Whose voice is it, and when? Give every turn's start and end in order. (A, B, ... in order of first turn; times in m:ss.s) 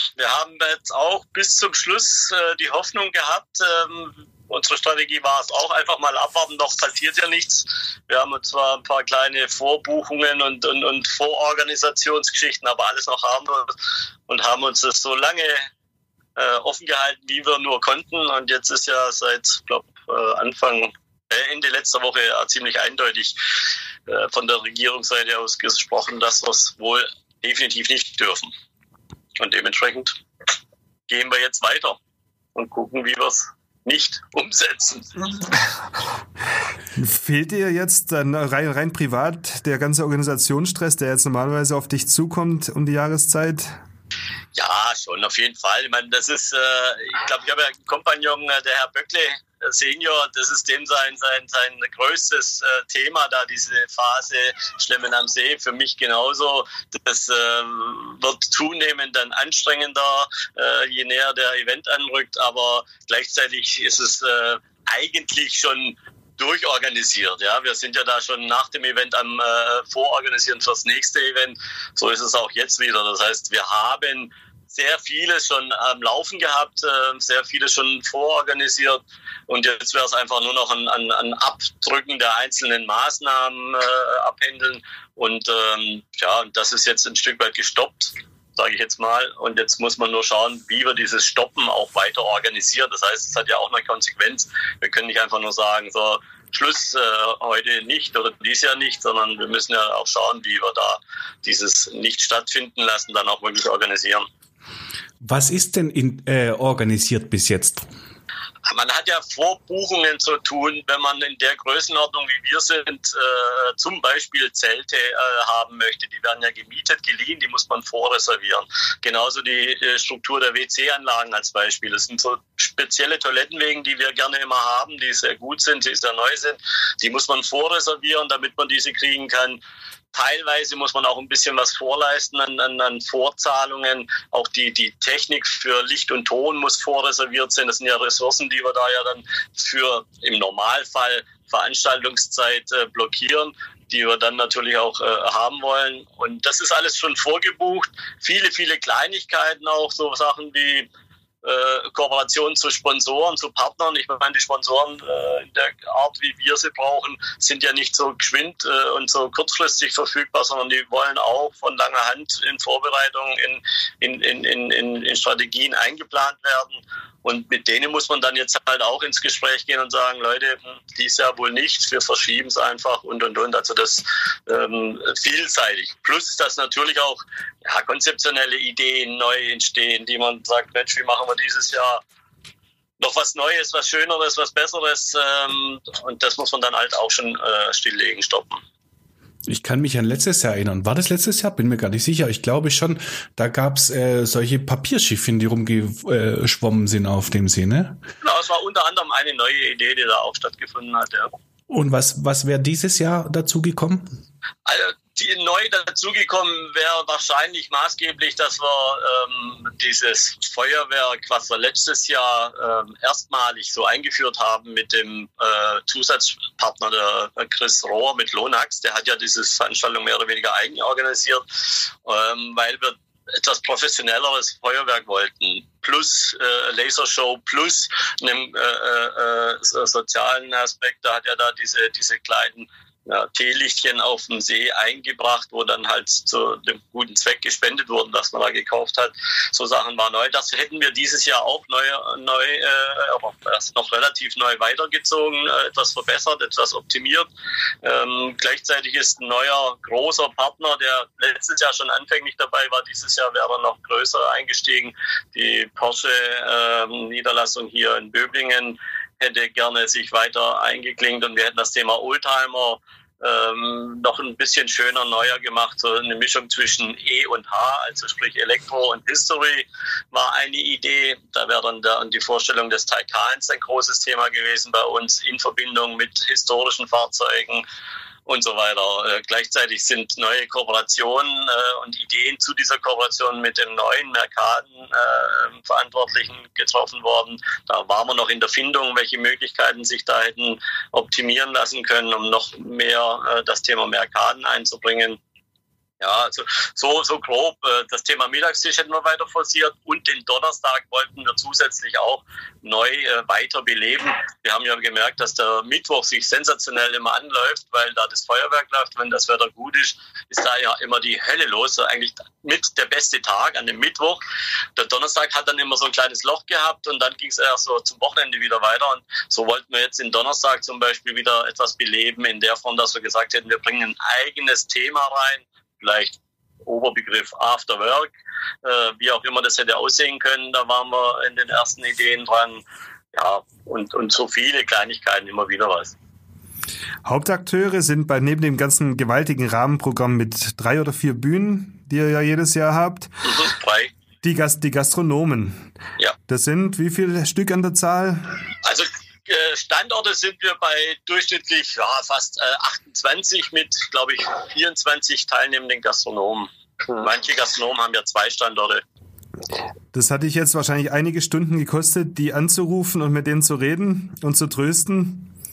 0:00.2-0:13.7 A
0:14.3-0:15.7 A
0:16.4-0:23.3 A
0:24.1-0:28.5 A
0:29.4-0:30.2 A
0:31.1-0:32.0 A
0:32.5-0:35.1 A
0:37.0-0:43.7 B
0:44.5-1:44.2 A
1:45.2-1:47.9 C
1:48.6-2:09.6 A
2:10.1-2:30.9 A
2:31.4-3:02.0 A
3:03.0-3:08.6 A
3:09.5-3:18.0 C
3:18.2-3:21.3 A
3:21.7-3:24.2 C
3:24.6-3:41.4 A
3:42.0-4:07.3 A
4:07.8-4:37.6 A
4:38.2-4:55.2 A
4:56.0-5:14.2 A
5:14.8-5:28.1 A
5:28.6-5:32.6 A
5:33.1-5:35.9 A
5:37.0-5:43.1 B
5:43.2-5:43.9 A
5:44.2-5:45.7 B
5:46.3-5:48.4 B
5:48.6-5:58.8 A
5:59.9-6:05.3 B